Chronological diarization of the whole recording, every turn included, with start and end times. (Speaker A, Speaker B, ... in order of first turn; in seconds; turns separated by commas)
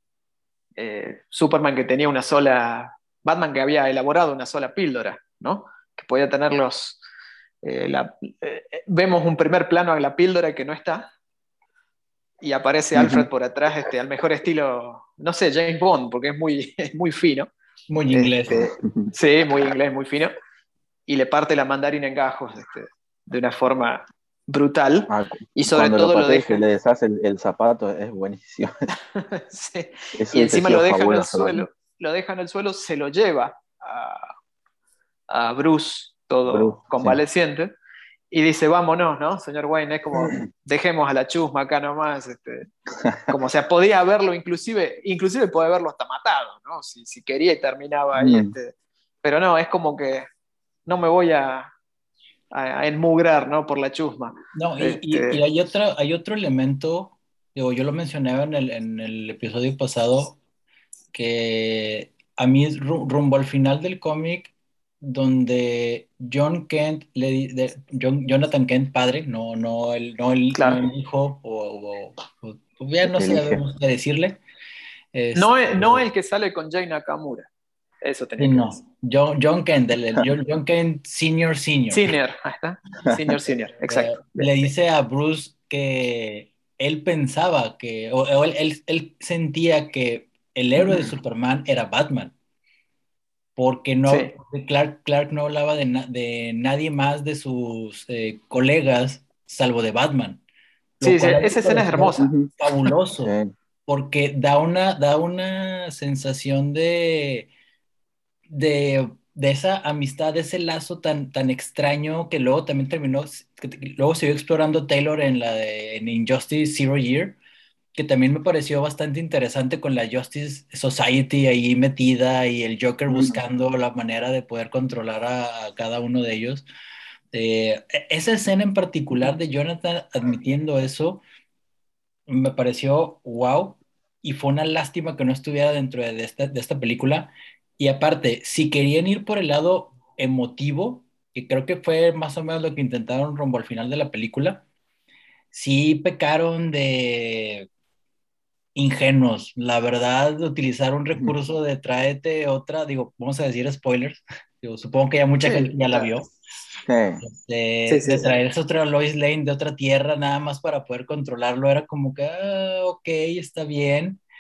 Speaker A: 0.8-7.0, Speaker A: 7.6-11.1, Speaker A: 12.4-17.5, Speaker B: 12.9-13.3, Speaker C: 17.9-18.7, Speaker A: 18.1-20.3, Speaker B: 18.5-19.1, Speaker A: 21.1-26.6, Speaker B: 25.1-28.7, Speaker A: 29.1-34.3, Speaker B: 30.2-31.6, Speaker A: 35.3-37.7, Speaker B: 36.5-37.2, Speaker A: 38.3-42.7, Speaker B: 43.0-43.3, Speaker A: 43.3-50.3, Speaker B: 48.2-48.5, Speaker A: 50.9-51.7, Speaker A: 52.5-55.4, Speaker C: 54.5-60.4, Speaker C: 61.1-74.4, Speaker A: 70.5-70.8, Speaker B: 73.1-73.6, Speaker C: 75.1-75.6, Speaker A: 75.3-77.5, Speaker A: 78.0-78.8, Speaker C: 78.4-82.1, Speaker A: 81.9-84.7, Speaker C: 83.8-92.3, Speaker C: 93.6-100.4, Speaker A: 94.1-94.3, Speaker C: 101.0-103.3, Speaker A: 101.0-102.3, Speaker B: 102.2-102.5, Speaker B: 103.2-103.5, Speaker C: 103.9-107.5, Speaker C: 108.5-117.4, Speaker C: 118.0-126.7, Speaker B: 123.1-123.4, Speaker C: 127.3-131.2, Speaker C: 132.3-144.7, Speaker C: 145.5-147.7, Speaker C: 148.8-156.3, Speaker A: 155.4-156.2, Speaker B: 156.9-157.2, Speaker C: 157.2-164.2, Speaker A: 157.9-158.3